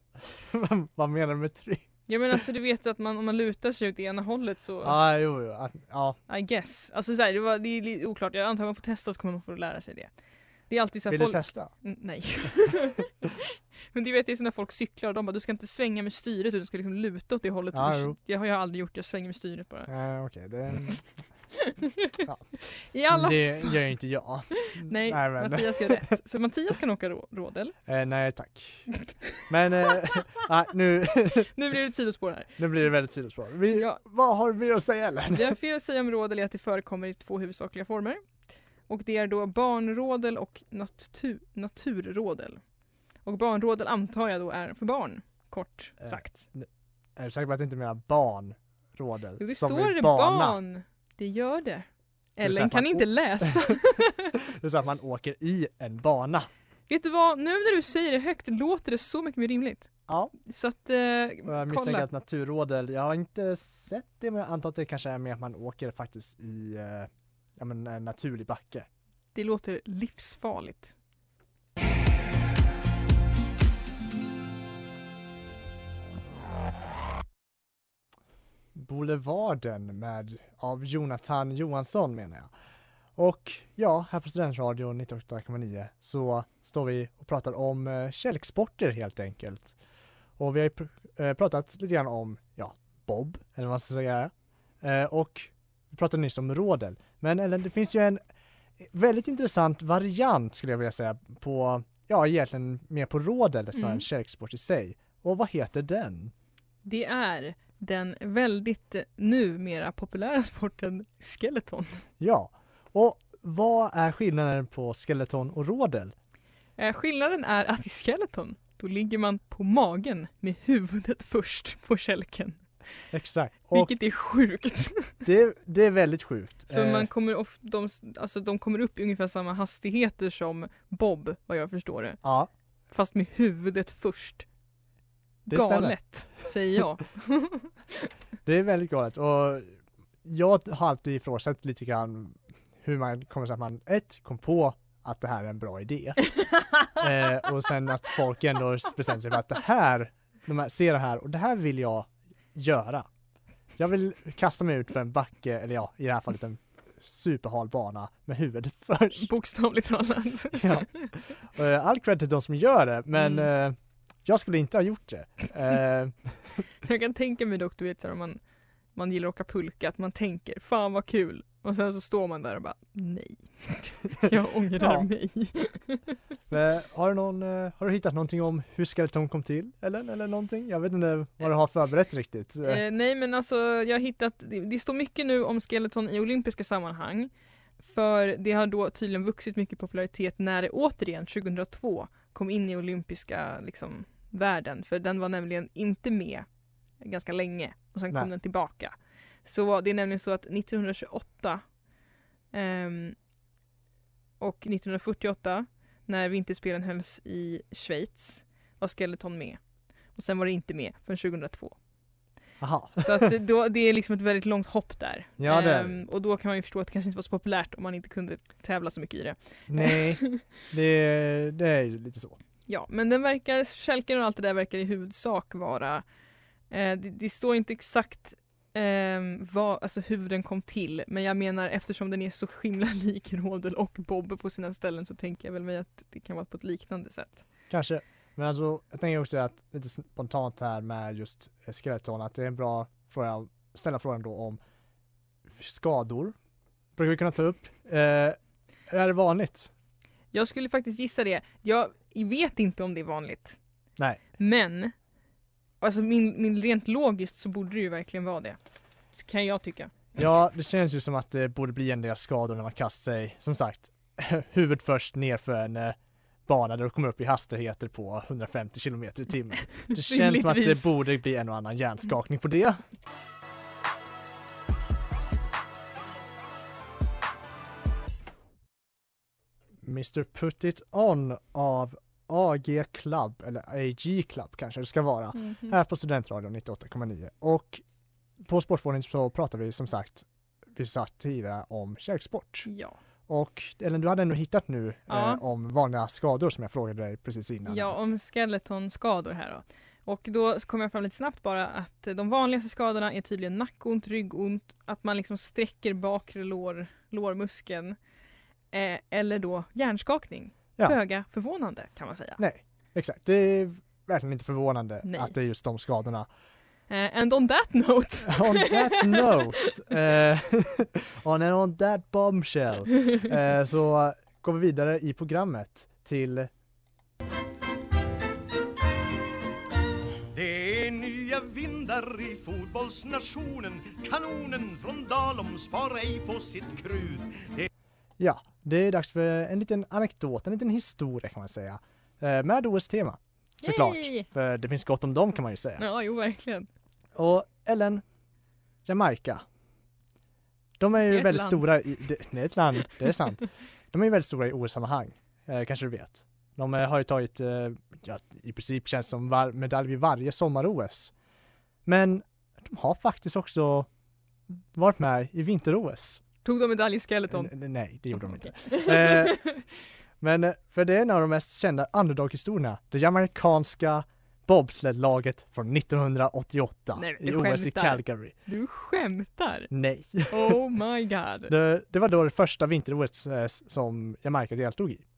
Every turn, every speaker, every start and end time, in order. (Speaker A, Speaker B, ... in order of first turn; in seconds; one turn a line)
Speaker A: 0.3-2.1
Speaker B: 2.1-5.0
Speaker A: 4.8-6.2
Speaker B: 6.3-19.9
Speaker A: 11.1-11.7
Speaker A: 17.7-18.2
Speaker A: 19.9-21.2
Speaker A: 22.2-22.5
Speaker B: 22.9-23.8
Speaker A: 23.1-26.1
Speaker B: 24.7-27.8
Speaker A: 27.9-31.5
Speaker B: 31.5-32.7
Speaker A: 32.6-35.5
Speaker B: 33.7-34.0
Speaker B: 35.3-38.3
Speaker B: 38.9-42.6
Speaker B: 43.2-46.4
Speaker A: 46.0-50.6
Speaker B: 49.4-54.3
Speaker A: 52.4-53.8
Speaker A: 54.4-56.5
Speaker B: 56.9-62.1
Speaker A: 60.1-60.3
Speaker A: 61.5-68.9
Speaker B: 69.3-71.0
Speaker A: 78.8-82.5
Speaker A: 83.2-89.8
Speaker A: 90.4-98.2
Speaker A: 98.8-106.3
Speaker B: 103.7-104.0
Speaker B: 106.8-112.1
Speaker A: 112.2-116.2
Speaker B: 116.8-122.7
Speaker A: 123.1-123.9
Speaker B: 123.7-125.2
Speaker A: 125.2-127.1
Speaker B: 126.7-132.2
Speaker A: 132.2-132.5
Speaker B: 132.9-134.5
Speaker A: 135.4-136.5
Speaker B: 135.5-137.7
Speaker A: 138.4-146.4
Speaker A: 146.9-153.1
Speaker A: 153.8-159.3
Speaker B: 159.2-161.1
Speaker A: 160.5-166.5
Speaker B: 163.2-163.5
Speaker B: 166.8-168.4
Speaker B: 168.9-176.2
Speaker A: 174.8-175.1
Speaker A: 176.5-182.8
Speaker B: 182.6-196.4
Speaker B: 197.0-201.7
Speaker B: 202.5-203.2
Speaker B: 204.4-209.6
Speaker B: 210.1-211.8
Speaker A: 212.6-213.3
Speaker B: 213.0-220.4
Speaker A: 215.4-216.1
Speaker A: 219.7-222.4
Speaker B: 222.7-226.0
Speaker B: 226.7-237.4
Speaker A: 237.7-244.6
Speaker A: 245.5-246.4
Speaker A: 247.0-249.7
Speaker B: 250.3-253.6
Speaker B: 254.4-254.9
Speaker B: 255.8-258.6
Speaker B: 259.1-260.0
Speaker A: 260.2-272.8
Speaker B: 269.9-270.9
Speaker A: 279.8-287.8
Speaker B: 285.3-285.8
Speaker A: 288.4-292.7
Speaker B: 292.7-293.0
Speaker A: 293.3-298.0
Speaker B: 295.1-295.4
Speaker B: 297.7-308.0
Speaker B: 308.7-312.4
Speaker A: 312.4-316.3
Speaker B: 315.0-315.3
Speaker B: 316.9-319.4
Speaker A: 318.2-326.5
Speaker C: 330.3-337.7
Speaker A: 338.2-345.9
Speaker B: 343.6-344.3
Speaker B: 345.8-346.7
Speaker A: 347.1-348.0
Speaker A: 348.9-349.4
Speaker A: 350.8-361.1
Speaker B: 351.0-351.7
Speaker A: 361.9-363.9
Speaker A: 364.7-366.2
Speaker B: 366.4-367.5
Speaker A: 367.3-369.5
Speaker B: 368.1-369.5
Speaker A: 370.2-378.3
Speaker B: 377.0-379.7
Speaker A: 379.7-380.6
Speaker B: 380.3-381.5
Speaker A: 381.5-385.0